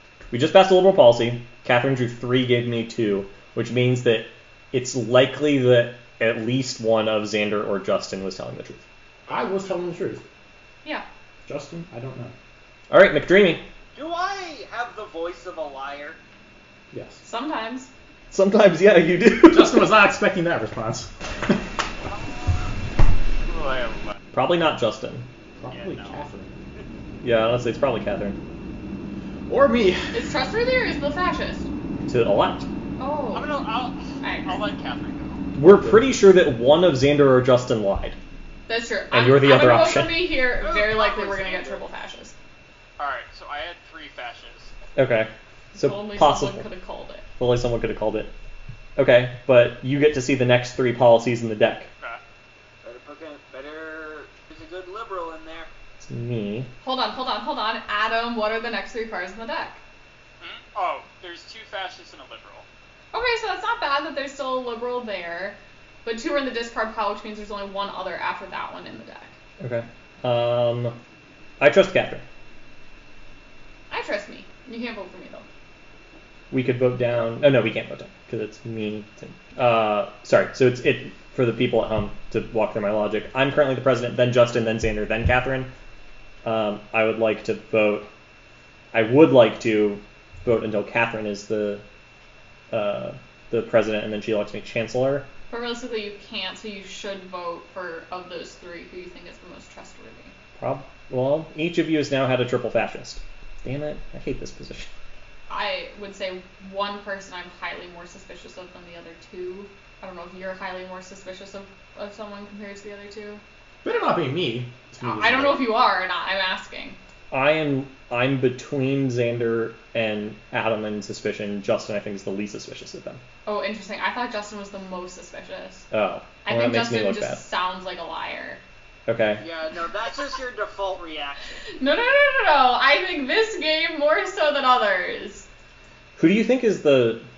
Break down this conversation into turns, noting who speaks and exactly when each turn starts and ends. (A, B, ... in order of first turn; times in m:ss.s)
0:00.3-0:08.8 A
0:09.3-0:10.2 B
0:11.4-0:12.3 B
0:12.9-0:13.6 A
0:13.9-0:16.2 C
0:16.9-0:17.2 B
0:17.2-0:17.9 D
0:18.3-0:19.8 A
0:19.5-0:21.6 B
0:22.1-0:22.6 E
0:23.4-0:24.2 E
0:24.3-0:25.3 A
0:25.6-0:26.5 B
0:25.7-0:26.3 E
0:27.2-0:28.4 A
0:29.5-0:30.0 B
0:30.1-0:31.7 D
0:32.1-0:32.7 A
0:33.0-0:33.6 D
0:33.3-0:35.4 E
0:34.2-0:34.6 D
0:35.6-0:38.2 A
0:38.7-0:42.3 D
0:39.1-0:40.3 A
0:40.6-0:41.8 C
0:43.0-0:44.7 E
0:45.0-0:46.7 A
0:45.8-0:47.2 D
0:47.4-0:48.3 A
0:49.0-0:51.9 A
0:52.8-0:55.7 C
0:56.0-0:56.7 A
0:56.8-0:59.8 D
1:00.4-1:02.7 E
1:03.1-1:09.3 D
1:09.6-1:11.0 A
1:11.6-1:12.2 A
1:13.9-1:15.4 D
1:16.5-1:25.7 A
1:26.4-1:28.1 A
1:28.9-1:31.8 A
1:32.7-1:35.3 A
1:35.5-1:40.3 D
1:40.6-1:44.9 A
1:45.5-1:53.4 D
1:53.8-1:55.7 B
1:55.0-1:57.0 D
1:57.3-2:03.2 A
2:03.4-2:05.8 D
2:05.9-2:07.4 A
2:06.4-2:08.6 D
2:09.1-2:09.4 A
2:09.4-2:11.5 C
2:11.8-2:15.5 D
2:16.2-2:17.3 A